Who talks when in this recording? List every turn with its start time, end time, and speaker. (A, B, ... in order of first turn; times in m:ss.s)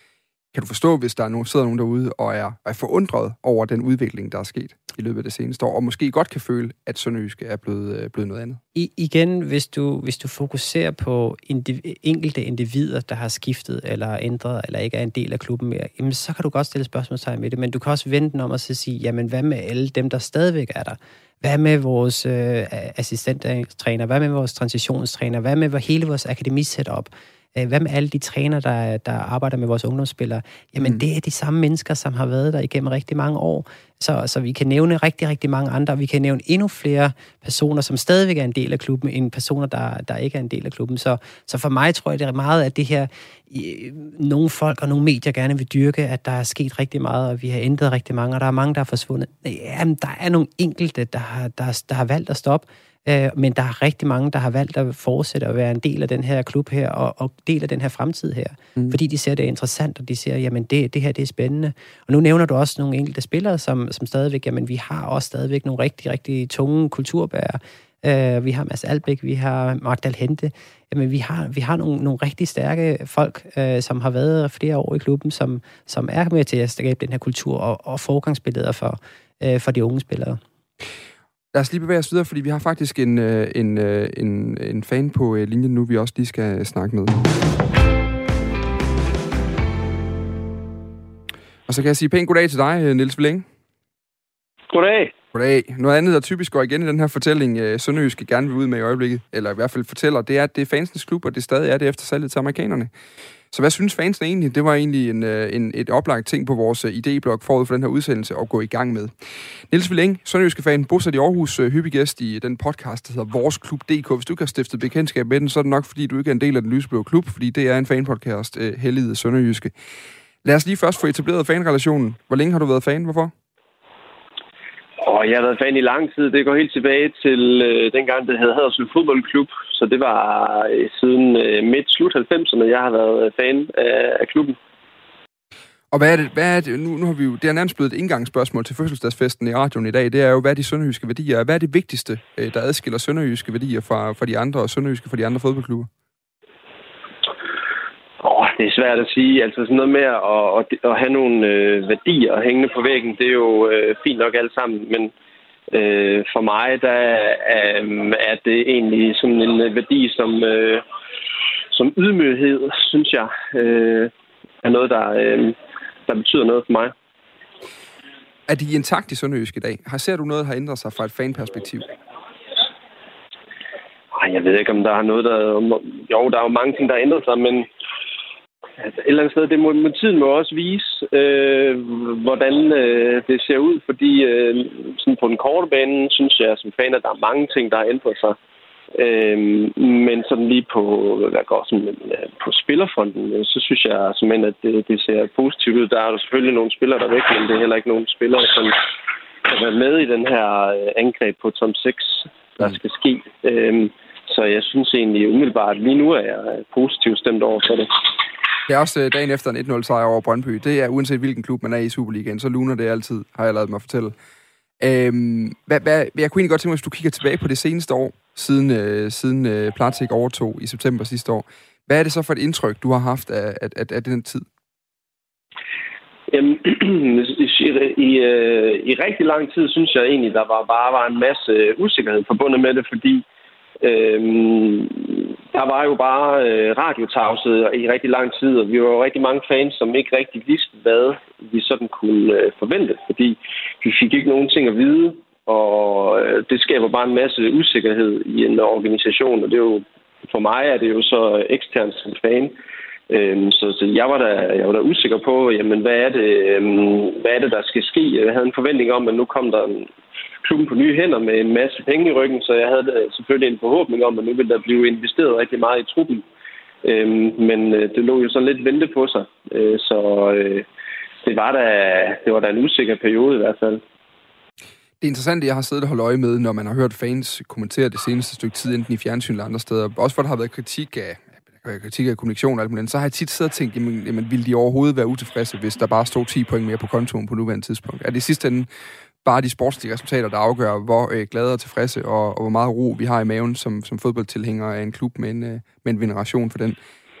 0:00.5-0:08.6 A
0:08.7-1:20.4 B
1:21.5-1:27.2 A
1:31.7-1:33.4 A
1:34.7-1:35.1 C
1:35.3-1:42.9 A
1:43.5-1:49.1 A
1:49.7-1:59.7 A
2:00.4-2:03.3 A
2:05.0-2:14.6 C
2:15.9-2:25.9 A
2:28.2-2:35.1 C
2:35.7-2:40.8 C
2:41.7-2:44.1 C
2:44.6-2:46.9 C
2:48.5-2:51.9 A
2:54.1-2:57.7 C
2:58.8-3:08.4 C
3:08.9-3:18.8 C
3:19.4-3:27.9 C
3:28.7-3:34.1 A
3:34.8-3:44.4 A
3:46.3-3:53.2 C
3:53.8-4:12.6 C
4:13.1-4:19.9 C
4:20.4-4:26.2 C
4:26.8-4:30.6 C
4:31.2-4:33.8 C
4:35.0-4:48.7 A
4:49.2-4:56.8 A